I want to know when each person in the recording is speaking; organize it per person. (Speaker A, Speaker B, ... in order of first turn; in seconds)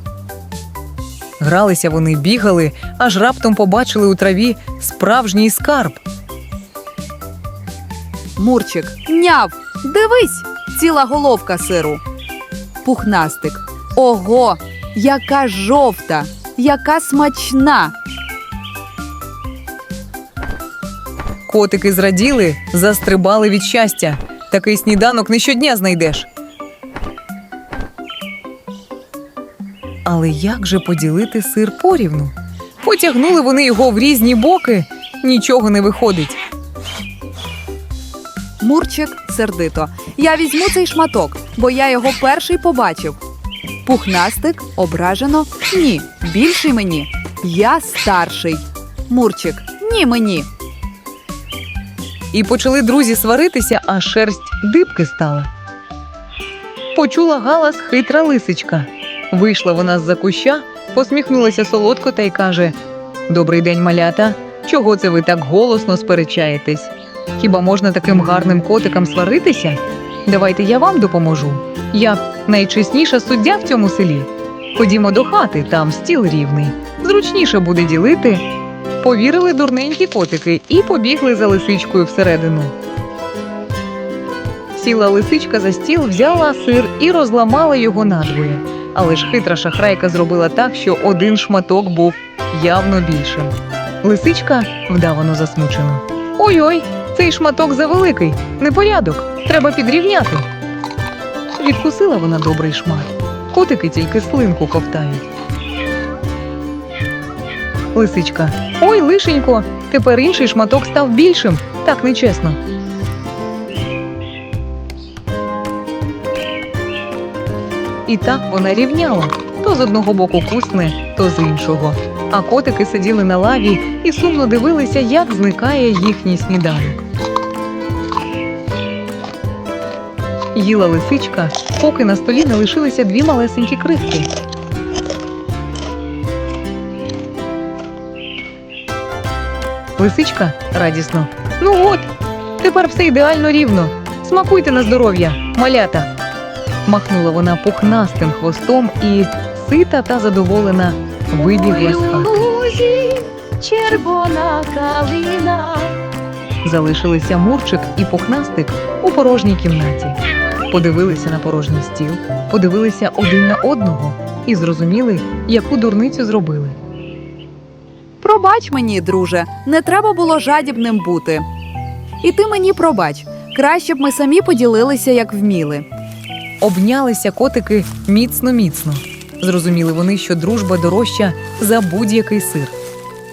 Speaker A: 1.4-6.0, 21.5-26.3, 30.0-36.4, 52.3-55.5, 56.9-62.8, 63.3-78.4, 79.0-82.7, 84.7-100.5, 101.5-105.3, 107.9-112.6, 118.0-127.0, 130.5-134.3, 140.0-142.1, 142.6-146.1, 146.8-152.4, 156.6-166.8, 176.6-182.7
Speaker B: 8.4-12.0, 12.8-17.9, 38.6-43.2, 43.8-50.5, 168.2-171.4, 172.2-175.9
Speaker C: 152.1-155.9